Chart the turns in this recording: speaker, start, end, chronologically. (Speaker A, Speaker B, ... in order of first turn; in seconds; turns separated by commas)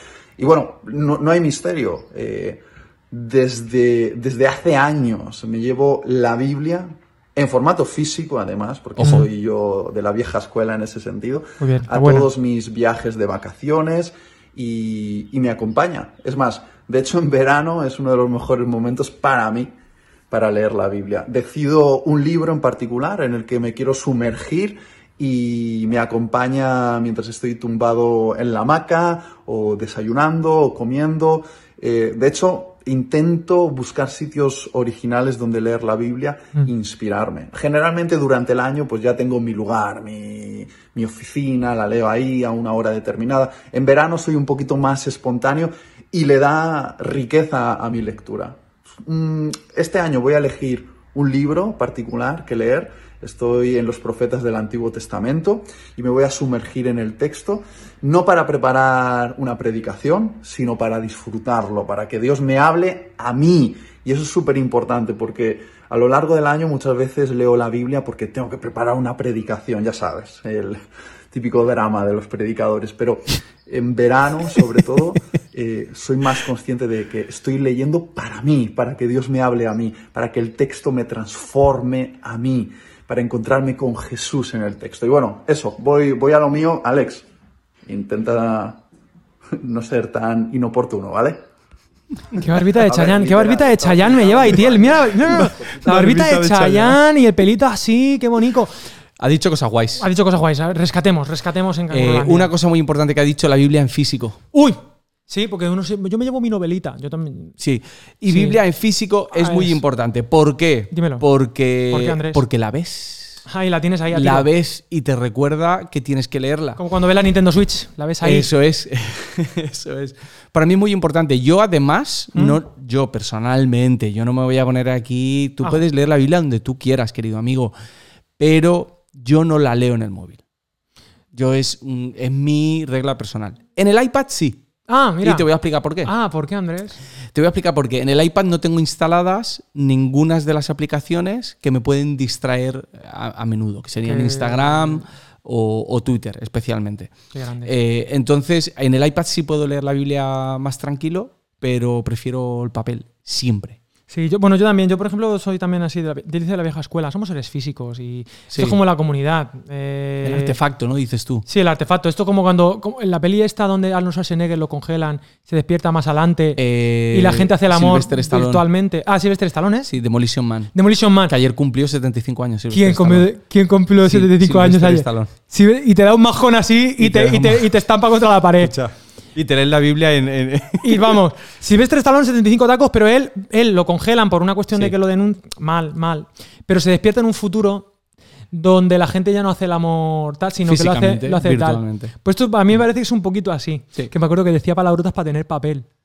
Speaker A: 0.4-19.7, Speaker B: 9.0-9.2, Speaker C: 9.0-9.3, Speaker C: 11.6-12.3, Speaker A: 20.3-70.8, Speaker A: 71.3-87.2, Speaker A: 87.9-88.8, Speaker A: 89.5-91.4, Speaker C: 92.3-98.8, Speaker A: 92.5-95.7, Speaker B: 94.5-97.0, Speaker B: 99.2-100.1, Speaker C: 100.0-102.5, Speaker B: 101.9-104.4, Speaker C: 104.5-107.6, Speaker B: 107.6-113.5, Speaker C: 108.3-108.6, Speaker C: 109.3-109.8, Speaker C: 110.9-111.2, Speaker C: 111.9-112.4, Speaker C: 113.5-114.5, Speaker B: 114.1-116.8, Speaker C: 116.8-118.5, Speaker B: 118.2-127.7, Speaker C: 122.3-122.6, Speaker B: 128.4-130.4, Speaker B: 131.3-134.6, Speaker C: 134.9-135.5, Speaker B: 135.2-136.1, Speaker C: 136.0-137.0, Speaker B: 137.3-147.1, Speaker C: 144.0-145.1, Speaker C: 147.3-147.7, Speaker B: 147.6-153.8, Speaker C: 154.1-160.6, Speaker B: 158.5-158.8, Speaker B: 160.2-161.5, Speaker C: 161.5-169.9, Speaker B: 166.6-168.7, Speaker B: 169.8-173.3, Speaker C: 170.7-171.3, Speaker C: 172.7-178.7, Speaker B: 174.0-175.3, Speaker B: 177.0-177.7, Speaker B: 178.6-181.2, Speaker C: 180.8-187.9, Speaker C: 188.5-195.9, Speaker B: 190.7-192.1